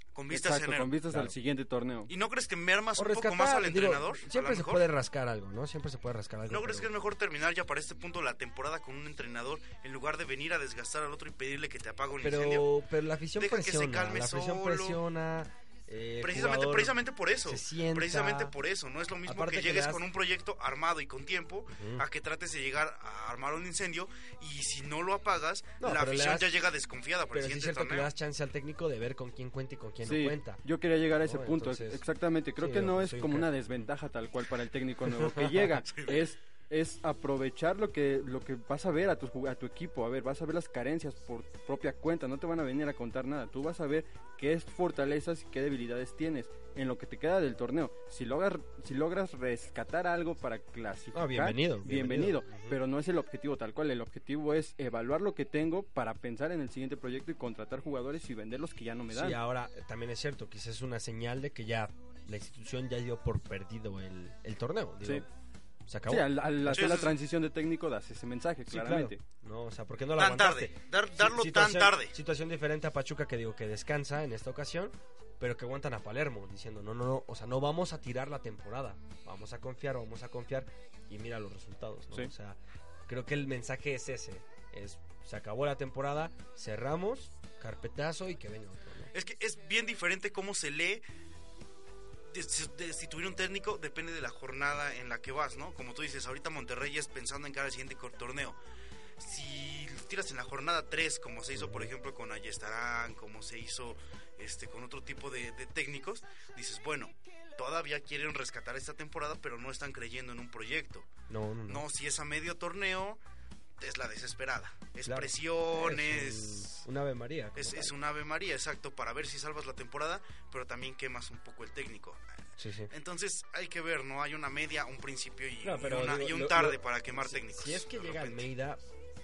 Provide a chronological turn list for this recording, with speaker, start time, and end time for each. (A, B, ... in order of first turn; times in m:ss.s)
0:00.1-0:01.0 A
0:00.3-0:02.1 B
0:01.1-0:01.3 C
0:02.1-0:04.8 A
0:03.0-0:06.9 C
0:06.5-0:12.7 A
0:12.2-0:18.5 C
0:13.4-0:15.0 A
0:16.2-0:28.1 A
0:19.2-0:20.0 C
0:21.7-0:22.0 C
0:25.8-0:26.5 C
0:27.3-0:30.6 C
0:30.0-0:59.4 B
0:31.2-0:32.0 C
0:32.6-0:33.8 C
0:35.0-0:35.7 C
0:35.9-0:36.2 A
0:51.1-0:52.8 C
0:59.1-1:05.3 C
1:05.9-1:06.8 C
1:06.1-1:09.2 B
1:06.7-1:07.1 A
1:08.7-1:29.1 C
1:10.2-1:12.1 A
1:29.1-1:31.0 A
1:32.3-1:38.6 A
1:39.2-1:51.1 A
1:41.5-1:41.9 C
1:51.3-1:51.8 C
1:51.7-1:53.2 A
1:53.8-1:56.8 A
1:55.0-1:57.9 C
1:57.6-2:02.2 A
2:02.6-2:02.9 C
2:02.9-2:08.5 A
2:05.6-2:08.8 C